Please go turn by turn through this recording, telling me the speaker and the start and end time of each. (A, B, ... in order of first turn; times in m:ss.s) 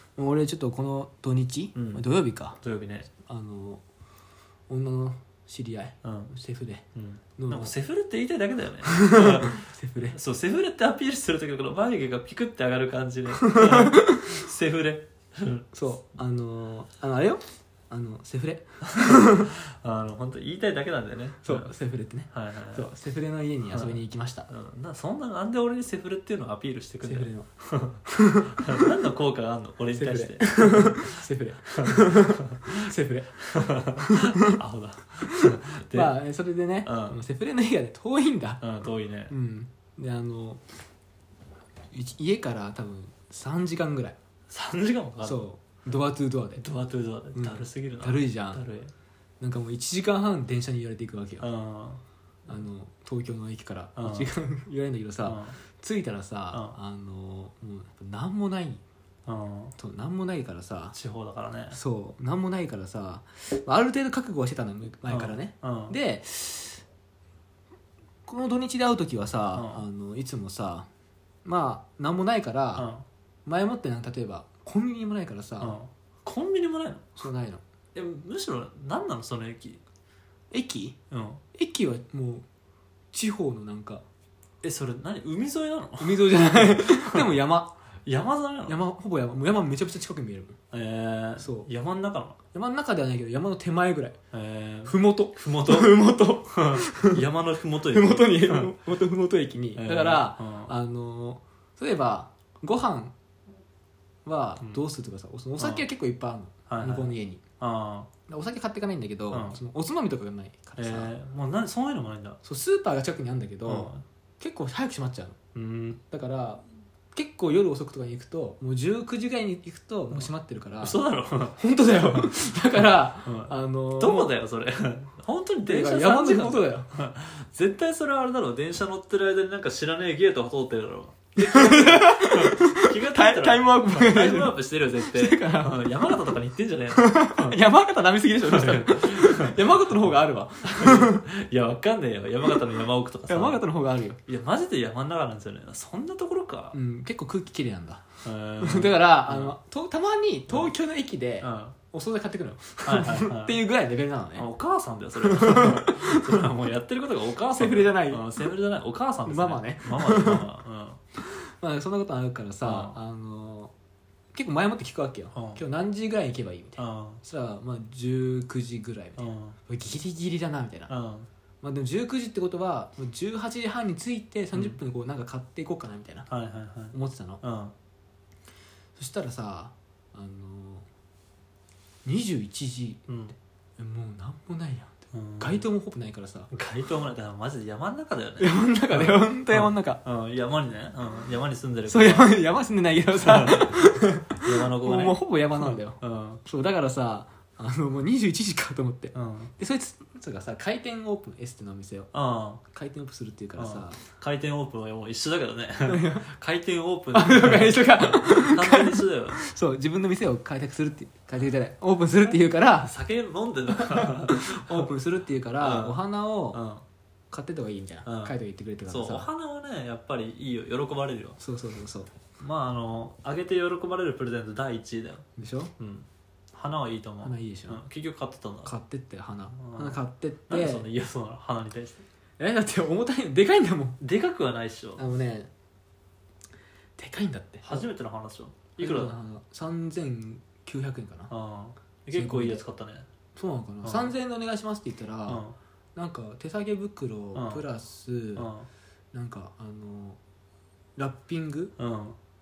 0:00.2-0:02.6 A
0:01.7-0:02.0 B
0:02.6-0:03.1 B
0:03.2-0:03.8 A
0:04.7-0:06.8 A
0:06.0-0:06.3 B
0:06.9-0:15.6 B
0:07.4-0:07.7 A
0:08.8-0:10.2 A
0:13.4-0:14.2 A
0:15.7-0:19.5 A
0:18.9-0:21.7 B
0:21.4-0:24.5 A
0:22.3-0:22.9 B
0:23.7-0:32.9 B
0:27.0-0:27.5 A
0:28.1-0:28.8 A
0:29.9-0:34.6 A
0:33.5-0:36.2 B
0:35.3-0:38.6 A
0:36.8-0:37.2 B
0:38.6-0:39.3 B
0:39.3-0:40.6 A
0:41.9-0:44.2 A
0:44.5-0:45.4 B
0:45.2-0:46.6 A
0:46.6-0:48.9 B
0:47.3-0:48.6 A
0:49.4-0:51.5 A
0:51.4-0:52.0 B
0:52.5-0:58.8 A
0:54.0-0:54.3 B
0:55.2-0:55.6 B
0:59.2-0:59.7 B
0:59.8-1:01.0 A
1:00.9-1:01.8 B
1:01.7-1:06.8 A
1:05.1-1:06.0 B
1:08.2-1:10.9 A
1:09.5-1:09.8 B
1:11.4-1:12.9 A
1:12.8-1:13.0 B
1:13.4-1:15.8 A
1:15.6-1:17.1 B
1:17.2-1:17.6 A
1:17.9-1:19.8 B
1:20.5-1:21.0 A
1:21.1-1:21.4 B
1:21.5-1:22.4 A
1:23.1-1:24.0 A
1:24.6-1:27.3 B
1:26.0-1:27.8 A
1:28.0-1:28.8 B
1:28.6-1:30.6 A
1:30.7-1:32.4 B
1:31.4-1:31.7 A
1:32.5-1:34.2 A
1:34.3-1:38.8 B
1:34.8-1:37.2 A
1:37.9-1:43.1 A
1:39.8-1:40.7 B
1:44.2-1:47.4 A
1:45.6-1:45.8 B
1:46.7-1:48.1 B
1:48.3-1:51.1 A
1:49.3-1:49.6 B
1:50.8-1:52.4 B
1:52.4-1:55.4 A
1:53.6-1:54.0 B
1:55.5-1:56.0 B
1:56.0-1:56.6 A
1:57.1-2:01.0 A
2:00.1-2:17.6 B
2:01.6-2:04.3 A
2:05.6-2:06.9 A
2:11.4-2:16.1 A
2:16.9-2:21.2 A
2:18.4-2:19.9 B
2:20.7-2:23.6 B
2:23.3-2:24.2 A
2:24.3-2:26.8 B
2:26.7-2:28.1 A
2:28.2-2:29.5 B
2:28.6-2:34.5 A
2:31.4-2:31.8 B
2:32.8-2:33.6 B
2:34.3-2:41.0 B
2:35.2-2:36.4 A
2:37.5-2:38.5 A
2:39.2-2:40.5 A
2:41.2-2:43.7 A
2:42.6-2:43.0 B
2:44.3-2:50.9 A
2:45.3-2:45.6 B
2:46.8-2:47.2 B
2:49.2-2:49.6 B
2:50.9-2:51.3 B
2:51.6-2:56.3 A
2:56.3-2:57.7 B
2:56.9-2:57.4 A
2:59.0-3:00.8 A
3:02.0-3:03.0 A
3:03.1-3:03.3 B
3:03.8-3:06.5 A
3:05.1-3:05.7 B
3:06.5-3:12.3 B
3:08.4-3:10.0 A
3:11.9-3:22.1 A
3:13.1-3:13.9 B
3:14.4-3:16.4 B
3:19.1-3:19.5 B
3:22.1-3:22.6 B
3:22.7-3:24.0 A
3:23.6-3:29.4 B
3:25.8-3:26.3 A
3:27.1-3:32.9 A
3:32.2-3:34.9 B
3:33.7-3:36.6 A
3:35.6-3:36.0 B
3:36.5-3:36.8 B
3:37.3-3:39.3 A
3:38.0-3:38.3 B
3:38.9-3:41.4 B
3:41.4-3:42.1 A
3:42.4-3:45.2 B
3:45.4-3:45.7 A
3:45.8-3:48.7 B
3:47.2-3:47.8 A
3:48.6-3:50.9 A
3:49.5-3:52.0 B
3:52.4-3:54.0 A
3:54.0-3:55.0 B
3:55.0-3:55.5 A
3:57.0-3:57.9 A
3:57.6-3:59.1 B
3:58.8-4:01.3 A
4:01.3-4:03.1 B
4:02.1-4:02.6 A
4:03.3-4:05.4 A
4:03.8-4:04.1 B
4:05.2-4:05.6 B
4:05.9-4:08.5 A
4:07.3-4:07.6 B
4:08.4-4:08.7 B
4:09.1-4:10.2 A
4:11.0-4:11.7 A
4:11.8-4:12.2 B